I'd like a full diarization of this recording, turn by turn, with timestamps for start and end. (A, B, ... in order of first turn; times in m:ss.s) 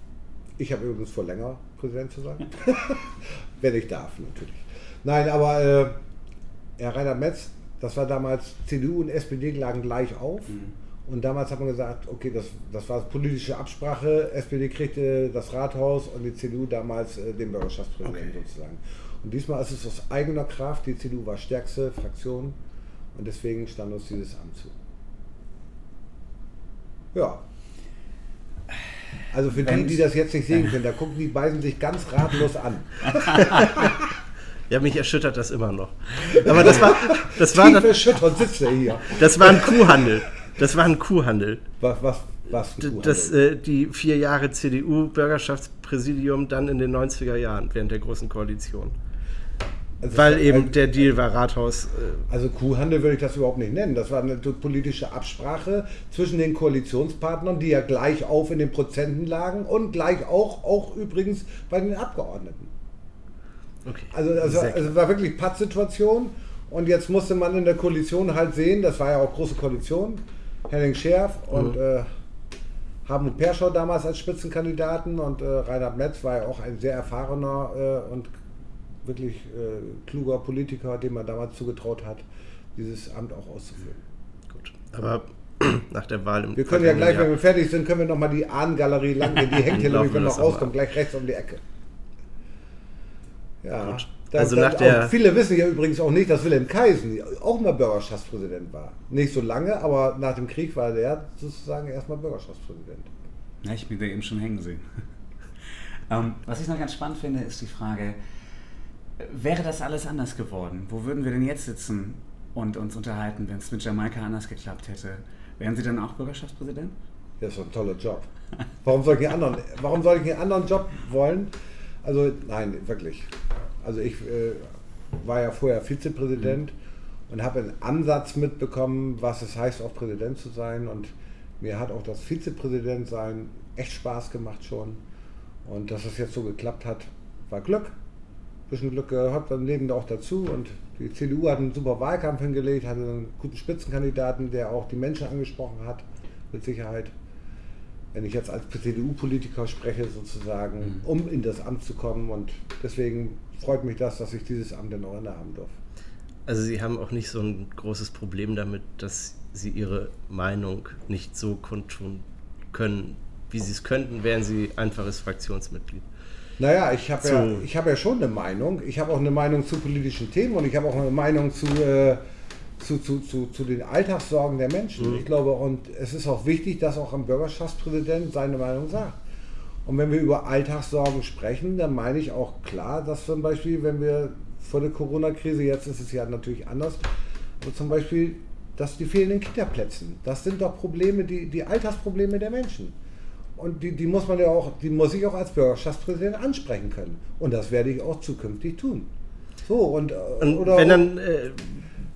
0:00.6-0:06.0 A
0:06.8-0:22.6 A
0:23.1-0:24.8 A
0:27.1-0:27.4 A
0:29.3-0:34.0 A
0:29.6-0:30.0 B
0:34.7-0:38.2 C
0:36.3-0:40.1 A
0:39.1-0:41.6 C
0:41.8-0:43.4 A
0:42.8-0:49.0 C
0:50.0-0:50.8 A
0:50.0-0:52.2 C
0:52.3-1:02.7 A
1:03.8-1:04.9 C
1:04.1-1:12.1 A
1:13.1-1:18.3 A
1:19.0-1:24.0 A
1:24.5-1:27.4 C
1:26.6-1:31.6 A
1:29.4-1:30.7 C
1:33.6-1:43.1 A
1:33.8-1:35.1 C
1:43.6-1:44.8 B
1:46.1-1:48.2 B
1:49.2-1:57.0 B
1:57.4-1:58.3 A
1:58.8-2:01.5 A
2:02.0-2:06.7 A
2:07.3-2:15.0 A
2:15.6-2:18.0 A
2:18.7-2:27.1 A
2:28.1-2:35.7 A
2:36.5-2:46.1 C
2:46.6-2:52.2 A
2:47.2-2:47.6 C
2:52.8-2:59.2 A
2:55.0-2:55.2 C
2:59.8-3:13.0 A
3:13.6-3:19.1 A
3:19.6-3:21.1 A
3:20.4-3:21.8 C